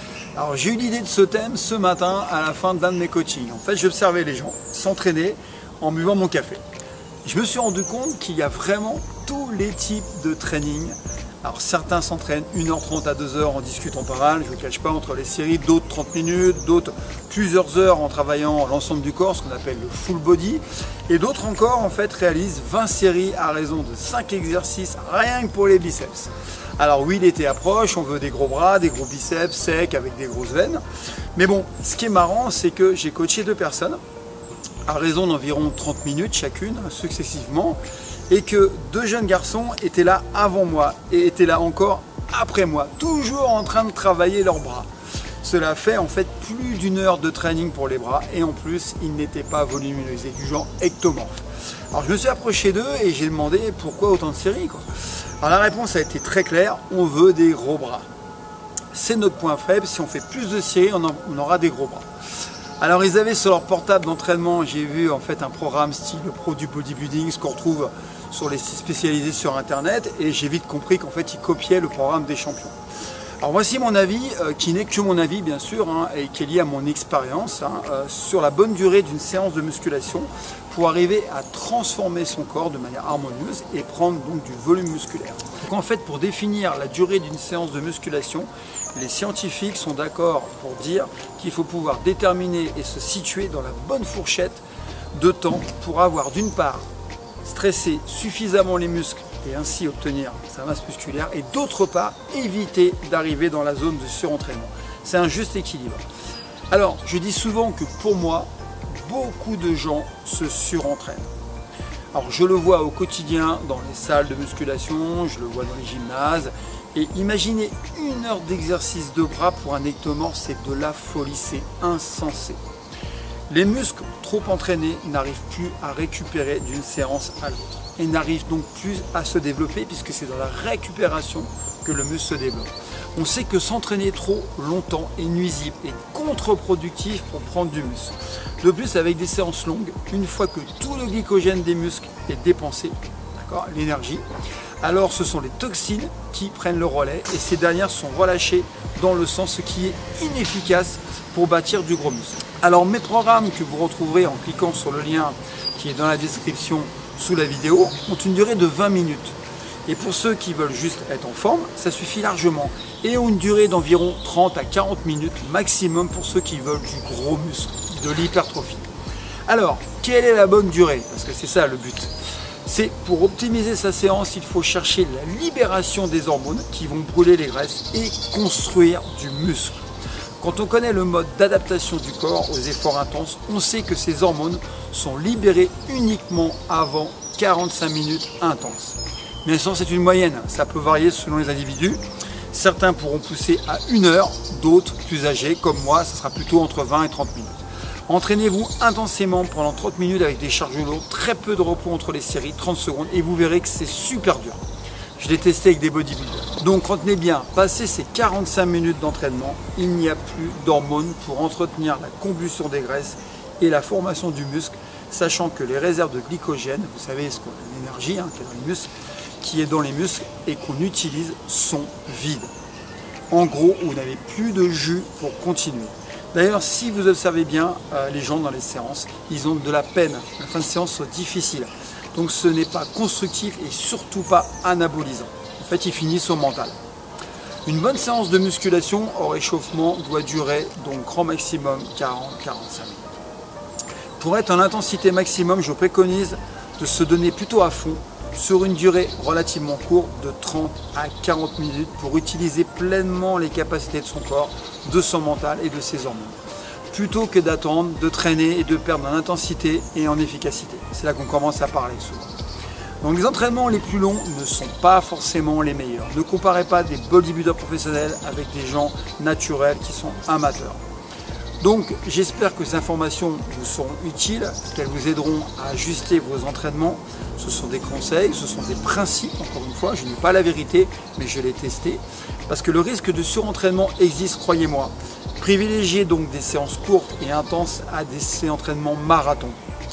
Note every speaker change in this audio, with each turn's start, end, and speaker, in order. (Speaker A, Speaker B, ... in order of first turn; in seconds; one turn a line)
Speaker A: 0.3-6.6
Speaker A: 7.2-30.8
Speaker A: 31.3-34.0
Speaker A: 34.9-44.9
Speaker A: 45.4-54.9
Speaker A: 55.4-58.1
Speaker A: 58.9-62.1
Speaker A: 62.8-72.7
Speaker A: 73.4-94.6
Speaker A: 95.1-96.8
Speaker A: 97.4-106.0
Speaker A: 106.7-111.3
Speaker A: 112.1-122.6
Speaker A: 123.5-144.2
Speaker A: 144.8-168.9
Speaker A: 169.5-172.1
Speaker A: 172.6-179.8
Speaker A: 180.4-192.0
Speaker A: 192.5-204.6
Speaker A: 205.2-218.9
Speaker A: 219.4-222.5
Speaker A: 223.3-236.8
Speaker A: 237.7-243.2
Speaker A: 244.2-256.4
Speaker A: 256.9-262.4
Speaker A: 263.0-270.8
Speaker A: 271.6-289.6